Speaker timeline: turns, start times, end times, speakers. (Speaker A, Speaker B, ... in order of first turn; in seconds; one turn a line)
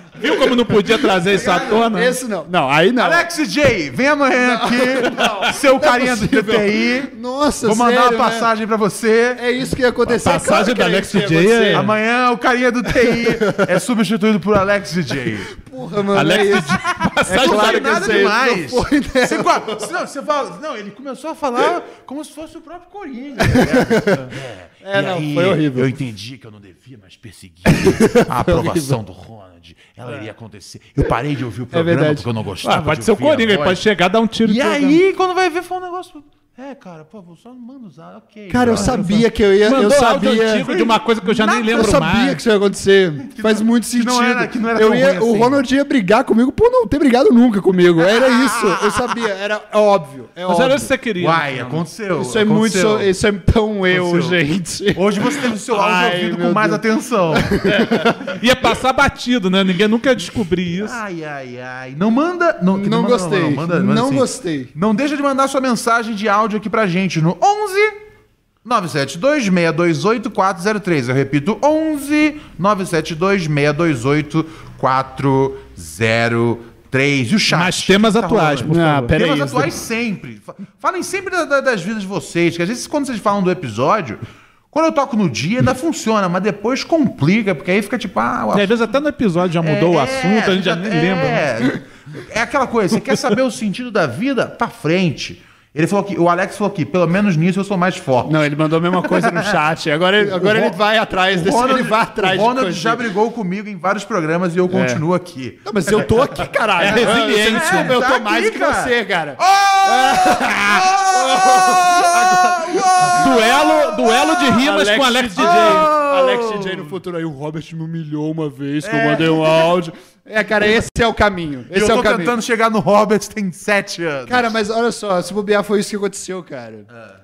Speaker A: 0.2-2.2
Speaker B: 1.2-1.9
Speaker C: 1.9-3.3
Speaker B: 3.0-7.1
Speaker C: 4.4-8.5
Speaker B: 7.6-9.4
Speaker C: 9.3-11.9
Speaker A: 10.1-11.9
Speaker B: 11.7-15.5
Speaker C: 13.0-13.7
Speaker C: 15.6-19.9
Speaker A: 16.1-18.2
Speaker B: 17.3-33.8
Speaker C: 23.4-24.3
Speaker C: 24.8-25.9
Speaker C: 27.7-29.0
Speaker C: 31.7-32.3
Speaker A: 32.6-35.0
Speaker B: 34.4-39.0
Speaker C: 38.5-40.7
Speaker A: 38.8-42.4
Speaker B: 40.6-41.8
Speaker C: 41.3-50.9
Speaker B: 43.2-45.6
Speaker B: 48.0-49.0
Speaker A: 50.5-51.8
Speaker B: 51.2-53.1
Speaker C: 52.1-58.3
Speaker B: 53.9-54.4
Speaker B: 54.9-57.6
Speaker A: 57.7-61.0
Speaker B: 60.7-68.0
Speaker C: 62.7-64.7
Speaker B: 68.7-88.9
Speaker A: 77.5-79.2
Speaker C: 78.7-79.8
Speaker A: 88.5-91.4
Speaker B: 89.6-98.5
Speaker C: 98.2-103.1
Speaker B: 99.0-99.5
Speaker B: 100.2-100.8
Speaker B: 101.3-106.2
Speaker C: 104.7-105.0
Speaker C: 105.7-122.3
Speaker A: 106.8-108.0
Speaker B: 106.8-114.2
Speaker A: 113.2-115.9
Speaker B: 115.4-116.9
Speaker B: 118.8-119.8
Speaker B: 121.7-124.6
Speaker C: 124.3-126.9